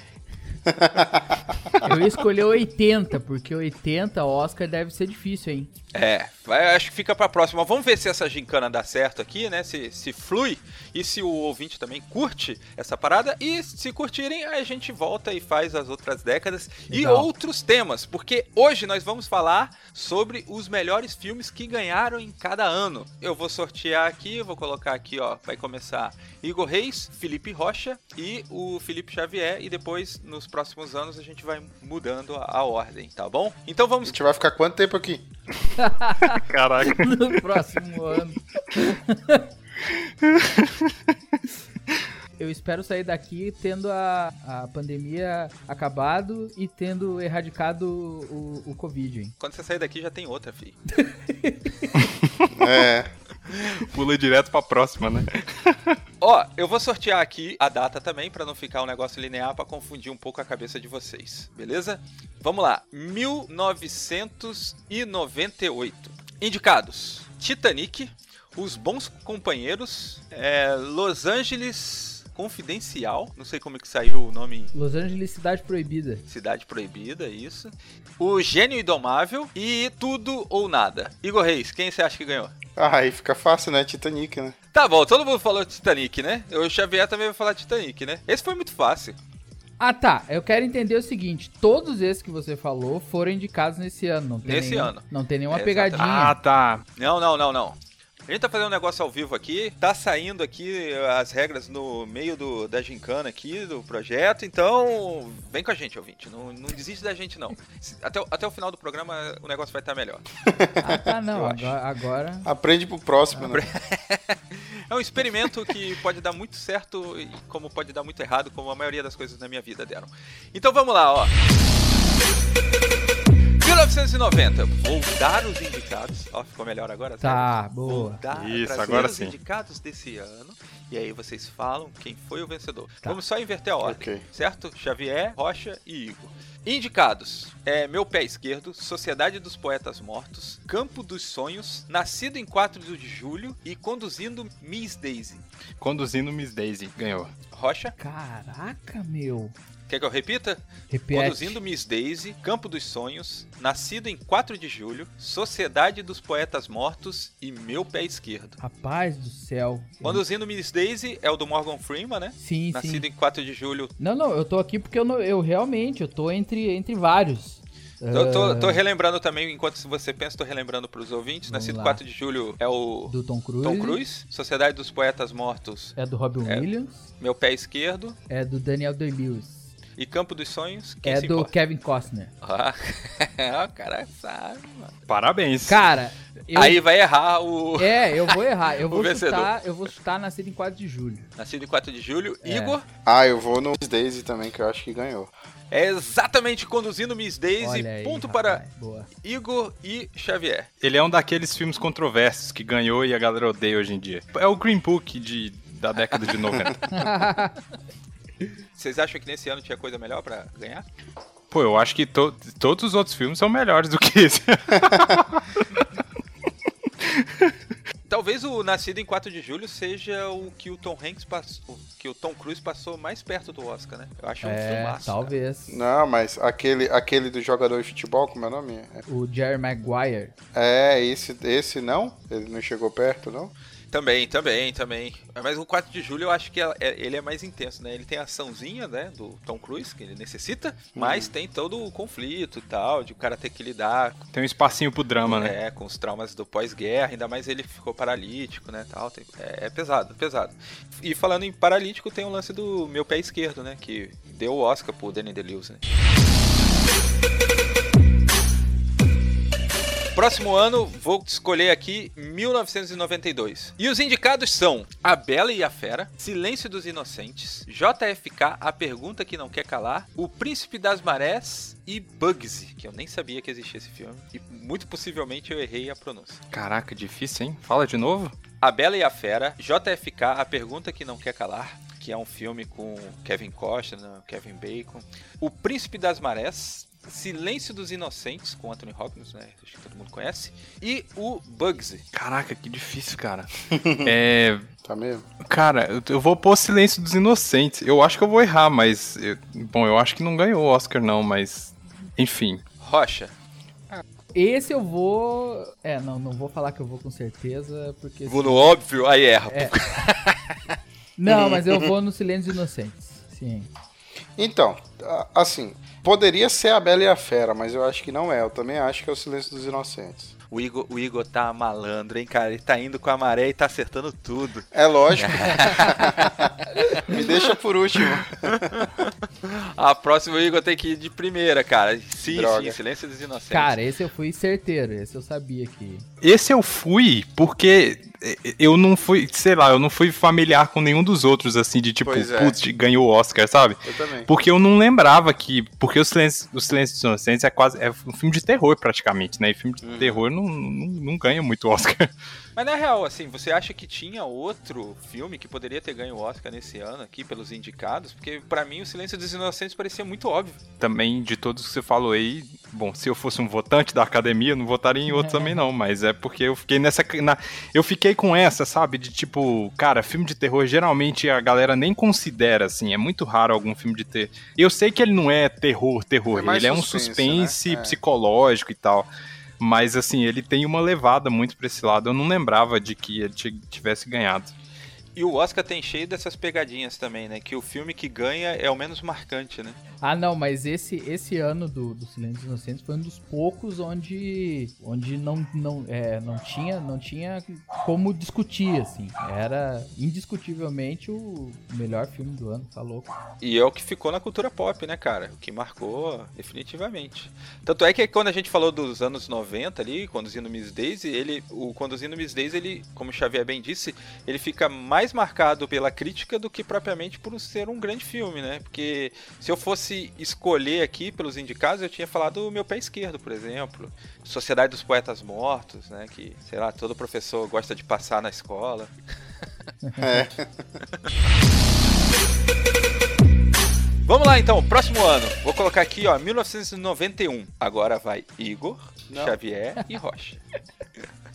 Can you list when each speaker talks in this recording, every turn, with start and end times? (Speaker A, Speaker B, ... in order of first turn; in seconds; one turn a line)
Speaker A: 0.7-1.6
Speaker B: 1.8-5.7
Speaker C: 5.9-34.2
Speaker B: 16.9-17.3
Speaker A: 34.0-35.2
Speaker B: 35.8-39.5
Speaker D: 36.3-37.4
Speaker D: 40.2-40.9
Speaker B: 42.4-49.3
Speaker C: 49.4-50.8
Speaker B: 51.0-52.0
Speaker D: 52.0-52.5
Speaker A: 52.5-53.1
Speaker D: 53.6-56.0
Speaker C: 56.2-74.7
Speaker B: 74.7-76.2
Speaker C: 76.3-82.5
Speaker A: 82.8-84.5
Speaker C: 84.7-89.2
Speaker B: 89.8-96.3
Speaker C: 94.4-96.3
Speaker D: 96.0-96.8
Speaker C: 97.0-110.2
Speaker A: 110.5-111.1
Speaker B: 110.8-112.5
Speaker C: 111.3-111.7
Speaker A: 112.4-113.6
Speaker C: 113.4-121.3
Speaker C: 123.6-145.4
Speaker B: 127.2-128.2
Speaker D: 128.3-129.3
Speaker A: 133.8-134.2
Speaker D: 145.8-147.3
Speaker C: 147.5-147.9
Speaker B: 148.0-149.5
Speaker C: 149.9-158.6
Speaker B: 150.9-151.6
Speaker B: 158.6-160.2
Speaker C: 160.0-163.9
Speaker B: 162.4-163.1
Speaker B: 164.0-168.8
Speaker C: 168.1-176.7
Speaker B: 171.5-172.0
Speaker B: 173.1-174.0
Speaker B: 175.9-177.0
Speaker C: 177.2-178.2
Speaker B: 178.3-179.7
Speaker C: 180.0-181.5
Speaker B: 181.0-182.3
Speaker C: 182.4-184.9
Speaker D: 185.1-185.8
Speaker B: 185.7-186.8
Speaker C: 186.5-189.5
Speaker B: 187.8-191.3
Speaker C: 191.4-192.8
Speaker B: 192.4-192.8
Speaker A: 193.1-195.3
Speaker C: 195.7-198.6
Speaker B: 197.6-199.1
Speaker C: 199.2-200.7
Speaker D: 200.8-206.9
Speaker B: 206.9-207.6
Speaker C: 208.8-210.8
Speaker D: 211.5-215.8
Speaker D: 217.0-217.5
Speaker C: 218.1-225.3
Speaker B: 224.4-225.8
Speaker A: 225.7-229.0
Speaker B: 229.1-230.3
Speaker A: 230.5-233.5
Speaker C: 233.9-244.2
Speaker A: 240.9-241.3
Speaker D: 244.3-245.6
Speaker C: 245.2-255.8
Speaker C: 260.1-276.4
Speaker D: 276.5-278.3
Speaker C: 278.6-292.0
Speaker D: 292.1-293.5
Speaker A: 293.7-294.1
Speaker D: 294.0-294.7
Speaker A: 294.8-295.3
Speaker D: 295.4-302.6
Speaker C: 302.8-303.3
Speaker B: 304.3-308.7
Speaker C: 308.2-310.5
Speaker B: 309.5-309.8
Speaker B: 311.2-313.7
Speaker A: 311.3-311.9
Speaker A: 314.4-320.3
Speaker C: 320.5-326.3
Speaker A: 324.7-326.5
Speaker C: 326.9-327.3
Speaker A: 327.0-328.9
Speaker C: 328.5-333.8
Speaker A: 332.2-332.8
Speaker B: 333.5-336.1
Speaker D: 336.2-352.1
Speaker A: 342.0-342.6
Speaker A: 343.8-344.3
Speaker A: 349.8-350.2
Speaker C: 352.6-360.6
Speaker D: 360.8-379.1
Speaker B: 365.1-365.6
Speaker A: 376.3-378.0
Speaker D: 379.6-384.5
Speaker C: 385.1-389.8
Speaker B: 390.0-403.1
Speaker C: 403.4-428.9
Speaker A: 430.0-430.8
Speaker C: 434.1-440.4
Speaker A: 439.1-439.4